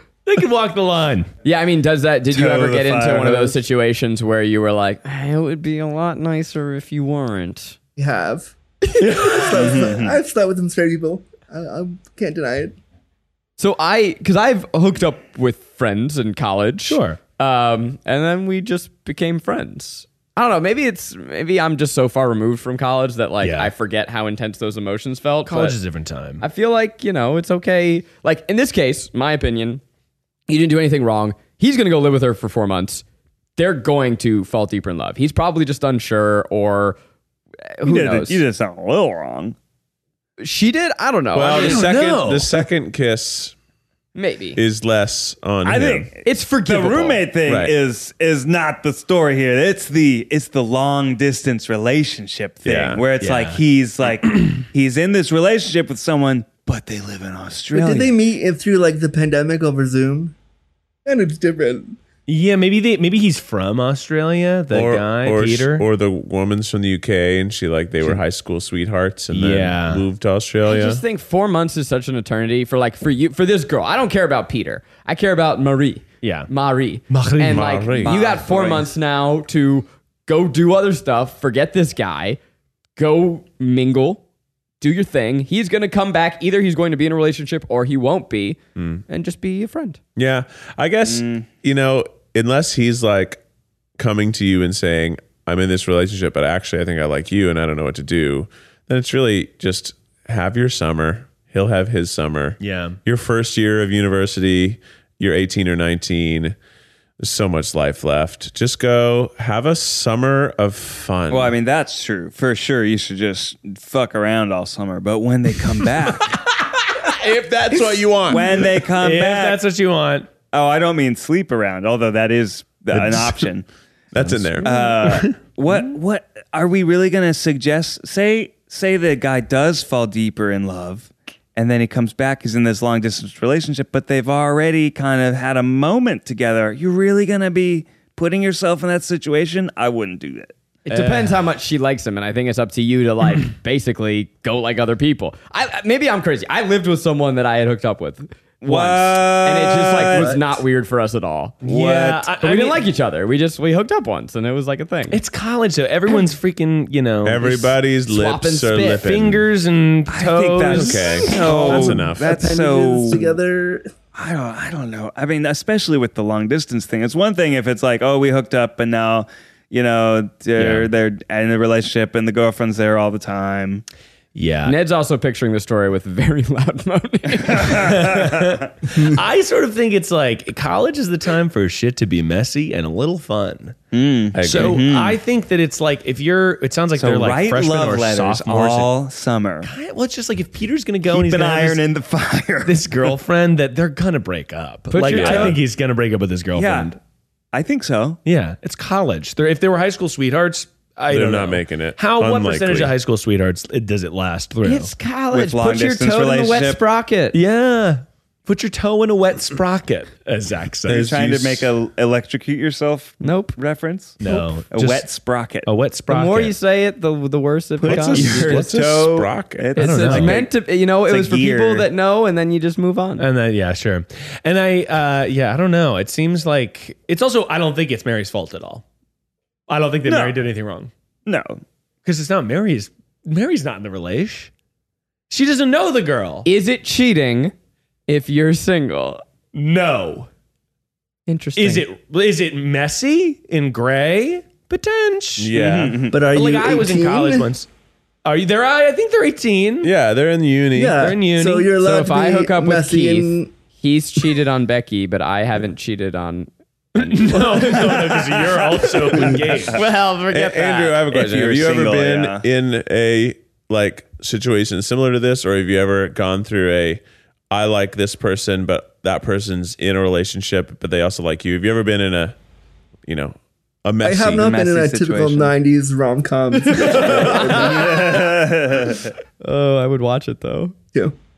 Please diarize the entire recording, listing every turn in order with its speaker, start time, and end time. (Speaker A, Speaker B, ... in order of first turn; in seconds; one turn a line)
Speaker A: 0.3-1.3
Speaker B: 1.4-7.8
Speaker C: 2.3-3.6
Speaker D: 8.0-12.8
Speaker A: 9.0-9.8
Speaker C: 9.6-10.2
Speaker B: 13.6-25.8
Speaker A: 16.9-17.2
Speaker A: 23.4-23.7
Speaker A: 25.5-26.4
Speaker B: 26.4-29.8
Speaker B: 30.5-33.0
Speaker B: 33.6-37.0
Speaker B: 37.8-38.4
Speaker C: 37.8-39.5
Speaker B: 40.4-41.9
Speaker E: 41.3-43.5
Speaker A: 41.6-42.5
Speaker B: 44.1-44.6
Speaker E: 44.6-46.1
Speaker C: 45.6-58.1
Speaker B: 46.2-47.7
Speaker E: 52.7-53.0
Speaker A: 53.2-53.6
Speaker D: 57.7-60.4
Speaker D: 61.0-62.0
Speaker A: 62.3-65.9
Speaker E: 64.7-71.0
Speaker A: 69.3-70.1
Speaker B: 70.6-82.4
Speaker A: 76.2-76.5
Speaker A: 77.1-77.7
Speaker E: 77.5-78.2
Speaker C: 78.0-78.9
Speaker B: 83.0-84.2
Speaker B: 84.8-90.0
Speaker E: 88.8-89.0
Speaker E: 90.2-93.4
Speaker C: 91.0-91.5
Speaker E: 94.0-106.5
Speaker A: 102.6-103.0
Speaker E: 107.2-111.5
Speaker C: 111.3-116.3
Speaker E: 117.0-118.7
Speaker C: 118.3-119.6
Speaker A: 118.9-120.3
Speaker C: 120.5-123.7
Speaker E: 123.0-123.4
Speaker E: 124.1-124.8
Speaker A: 124.2-125.3
Speaker C: 124.6-140.5
Speaker A: 140.9-141.4
Speaker B: 140.9-151.6
Speaker C: 148.6-150.3
Speaker D: 150.1-150.5
Speaker A: 151.6-152.8
Speaker C: 151.6-152.3
Speaker B: 152.4-155.2
Speaker A: 155.1-157.7
Speaker E: 157.2-159.5
Speaker B: 158.1-159.1
Speaker A: 159.0-161.8
Speaker C: 160.1-163.4
Speaker E: 160.7-162.5
Speaker D: 161.4-163.9
Speaker C: 164.2-173.8
Speaker A: 170.6-170.9
Speaker A: 174.3-174.8
Speaker B: 174.7-177.9
Speaker C: 177.5-178.7
Speaker A: 177.7-183.8
Speaker C: 183.9-185.2
Speaker E: 184.3-184.8
Speaker A: 184.4-188.9
Speaker C: 187.0-189.7
Speaker A: 189.6-191.8
Speaker C: 191.1-193.2
Speaker A: 192.7-197.0
Speaker B: 194.9-195.6
Speaker E: 195.1-195.6
Speaker C: 195.1-195.5
Speaker C: 196.6-196.9
Speaker C: 197.5-198.2
Speaker A: 198.2-204.9
Speaker E: 201.1-202.9
Speaker B: 204.6-207.4
Speaker C: 205.3-206.8
Speaker A: 207.3-211.2
Speaker E: 210.9-211.7
Speaker C: 210.9-215.7
Speaker B: 213.2-213.6
Speaker A: 214.2-215.1
Speaker A: 215.7-216.6
Speaker B: 216.1-218.7
Speaker E: 217.8-219.9
Speaker C: 217.8-220.5
Speaker A: 218.1-218.5
Speaker B: 219.8-223.3
Speaker A: 219.8-220.4
Speaker C: 221.1-221.9
Speaker A: 223.2-228.8
Speaker A: 229.7-230.9
Speaker C: 230.1-230.4
Speaker C: 231.3-231.6
Speaker A: 232.1-234.5
Speaker A: 235.3-236.5
Speaker B: 236.4-237.5
Speaker B: 238.1-239.2
Speaker A: 239.5-240.3
Speaker B: 241.3-241.9
Speaker A: 241.6-245.7
Speaker E: 245.4-246.1
Speaker C: 245.5-246.2
Speaker D: 246.1-247.5
Speaker A: 246.3-247.7
Speaker A: 248.2-249.9
Speaker E: 249.8-251.1
Speaker D: 250.7-253.5
Speaker A: 250.9-251.7
Speaker B: 251.8-258.0
Speaker A: 257.0-259.8
Speaker C: 258.5-259.5
Speaker B: 259.7-261.2
Speaker E: 260.3-272.4
Speaker C: 261.1-262.4
Speaker E: 273.1-274.5
Speaker D: 274.0-278.5
Speaker C: 274.4-275.5
Speaker E: 276.8-277.6
Speaker C: 276.9-279.1
Speaker B: 279.4-280.8